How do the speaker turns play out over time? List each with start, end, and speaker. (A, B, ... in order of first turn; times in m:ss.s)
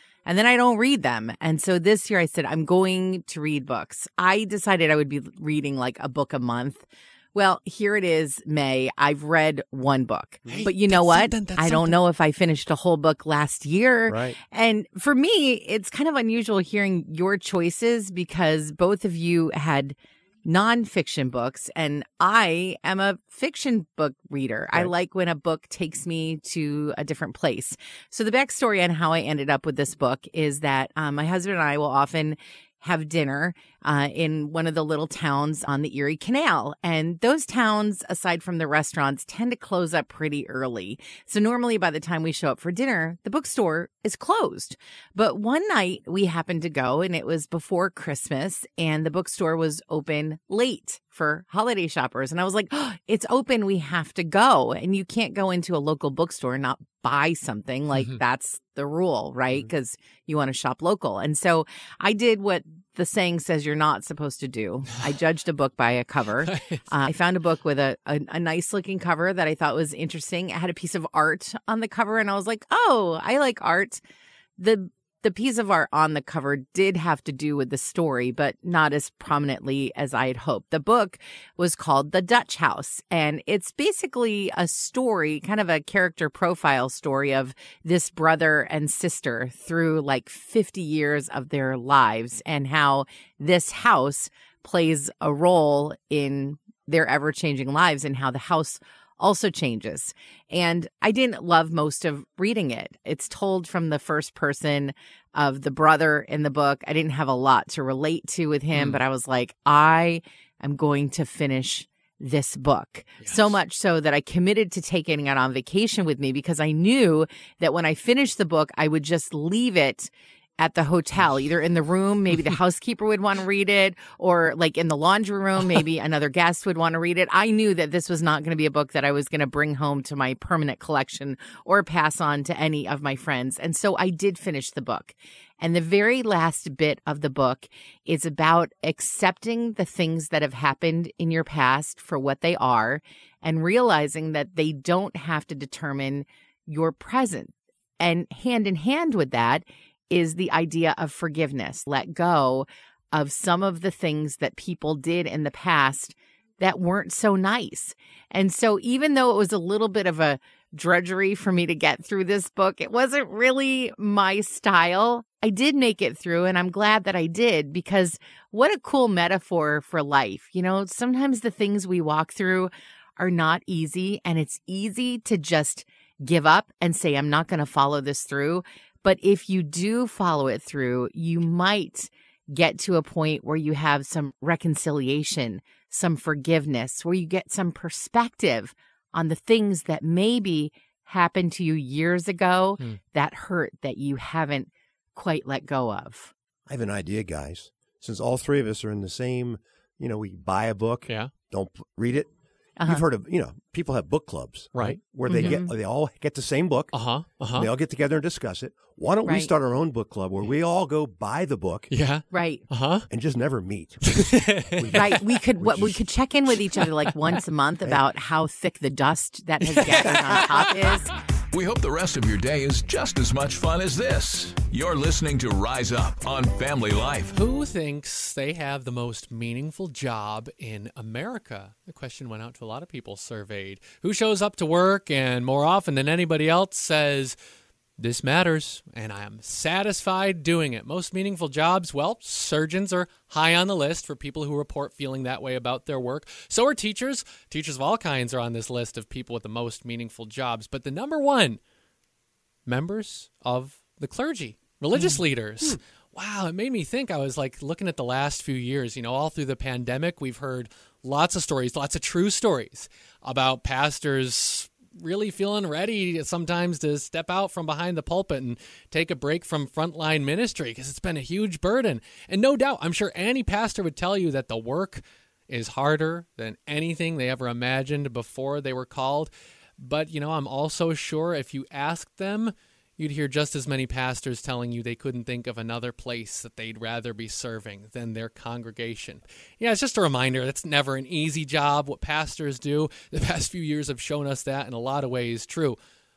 0:00.2-1:14.0 A
0:10.5-0:12.0 B
0:14.1-0:14.4 C
1:06.4-1:06.8 B
1:14.6-3:16.3 A
1:48.7-1:49.0 B
1:53.2-1:53.6 B
3:16.7-3:22.3 C
3:22.8-3:23.0 A
3:22.8-3:26.9 C
3:24.7-3:25.6 B
3:25.2-3:25.7 A
3:26.9-3:27.7 B
3:27.5-3:31.9 C
3:29.2-3:29.5 A
3:31.9-3:33.0 B
3:32.3-3:32.6 A
3:33.1-3:36.0 C
3:34.2-3:35.0 B
3:34.9-3:41.1 A
3:39.7-3:40.8 B
3:41.5-3:47.3 D
3:47.3-3:57.4 B
3:58.0-4:11.6 B
4:12.6-4:55.8 B